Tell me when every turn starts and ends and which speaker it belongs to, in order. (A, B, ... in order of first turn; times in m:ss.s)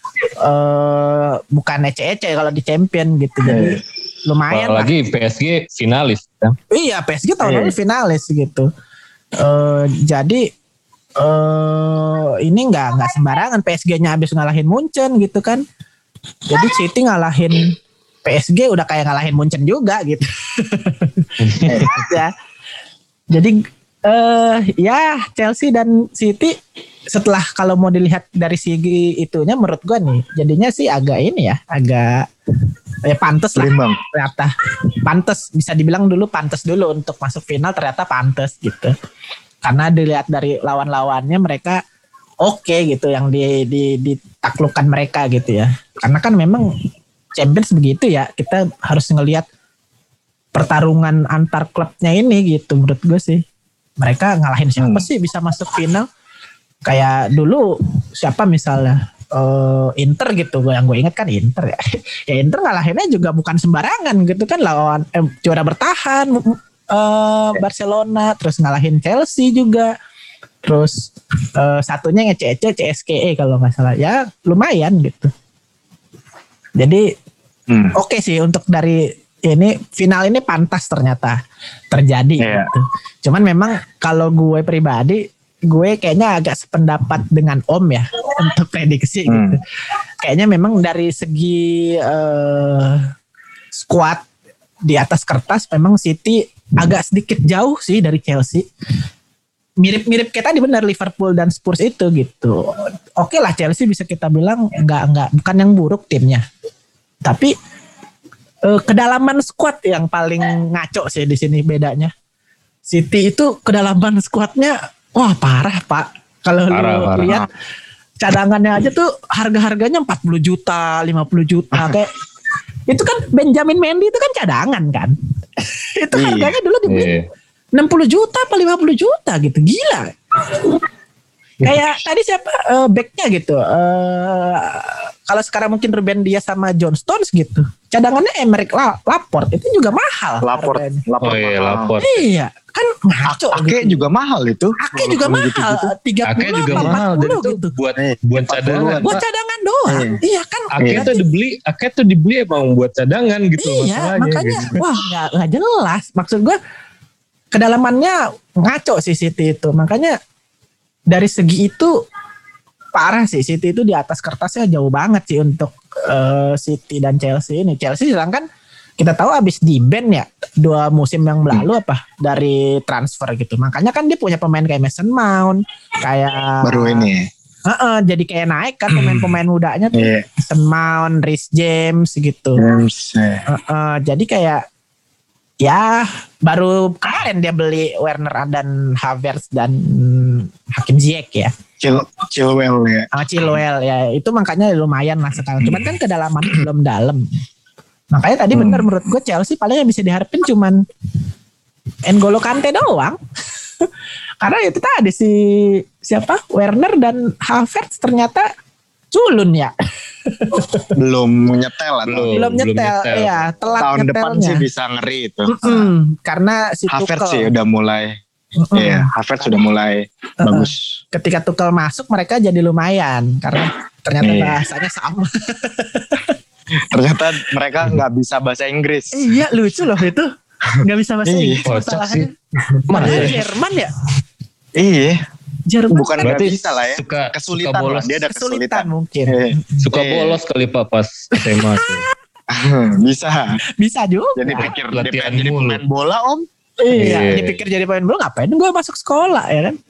0:00.4-0:04.9 A
0:03.4-0:03.8 B
0:04.5-0:06.6 C
0:06.7-0:08.7 A
0:07.4-0:07.7 B
0:09.4-0:10.4 A
0:11.2-0:15.6 A
0:16.5-0:22.3 A
0:21.4-0:22.0 C
0:21.7-0:21.9 B
0:23.3-0:26.6 A
0:27.1-0:32.3 A
0:33.0-0:34.5 A
0:33.6-0:34.0 B
0:35.0-0:38.9 A
0:39.6-0:41.8 A
0:42.4-0:46.7 A
0:47.3-0:49.4 A
0:50.5-0:53.4 A
0:54.0-0:56.1 A
0:54.8-0:55.0 B
0:56.8-1:09.9 A
1:10.6-1:15.3 A
1:16.8-1:17.1 A
1:17.7-1:17.9 B
1:17.9-1:21.4 A
1:21.9-1:29.6 A
1:22.4-1:22.7 B
1:29.3-1:29.6 B
1:30.2-1:33.1 A
1:33.8-1:34.2 A
1:34.8-1:38.6 A
1:39.8-1:42.6 A
1:43.2-1:46.4 A
1:47.2-1:47.5 A
1:48.6-1:52.1 A
1:52.9-1:57.4 A
1:56.7-1:57.4 C
1:58.2-2:02.1 A
2:02.9-2:05.1 A
2:06.0-2:07.1 A
2:06.1-2:06.5 B
2:06.8-2:07.2 C
2:07.7-2:10.6 A
2:11.6-2:21.0 A
2:20.4-2:22.0 B
2:21.2-2:22.2 C
2:22.0-2:24.0 A
2:23.3-2:25.9 B
2:24.8-2:27.7 A
2:26.3-2:29.2 C
2:26.7-2:27.0 B
2:28.0-2:29.2 B
2:28.9-2:31.2 A
2:29.9-2:30.2 B
2:30.7-2:34.8 C
2:30.8-2:31.1 B
2:33.6-2:36.6 A
2:37.5-2:40.2 A
2:41.1-2:41.9 A
2:42.9-2:48.4 A
2:49.0-2:57.1 A
2:56.6-2:57.3 B
2:57.7-3:02.6 A
2:58.9-2:59.4 B
2:59.9-3:00.3 B
3:02.6-3:03.4 B
3:03.5-3:04.6 A
3:05.6-3:11.5 A
3:11.8-3:13.6 B
3:13.1-3:17.2 A
3:15.6-3:15.9 B
3:18.1-3:20.8 A
3:18.5-3:18.9 B
3:22.1-3:23.2 A
3:24.4-3:28.5 A
3:29.1-3:29.7 A
3:30.2-3:30.9 A
3:30.9-3:32.4 B
3:32.1-3:33.6 C
3:32.3-3:34.6 A
3:33.8-3:35.9 B
3:35.5-3:37.5 A
3:36.9-3:38.2 B
3:38.6-3:39.1 A
3:38.7-3:41.0 B
3:40.4-3:46.3 A
3:44.2-3:44.6 B
3:46.9-3:49.4 B
3:49.1-3:50.3 A
3:50.8-3:52.3 A
3:51.2-3:51.6 B
3:51.7-3:52.3 C
3:52.7-3:53.4 B
3:52.9-3:53.4 C
3:52.9-3:53.9 A
3:54.8-3:55.2 B
3:55.7-3:56.2 A
3:55.9-4:00.4 B
3:56.2-3:58.2 C
3:58.3-3:59.8 A
3:59.8-4:02.1 C
4:01.4-4:01.8 A
4:02.5-4:03.6 B
4:03.8-4:04.7 A
4:04.4-4:06.5 B
4:04.9-4:05.8 C
4:06.8-4:09.8 A
4:06.9-4:07.6 C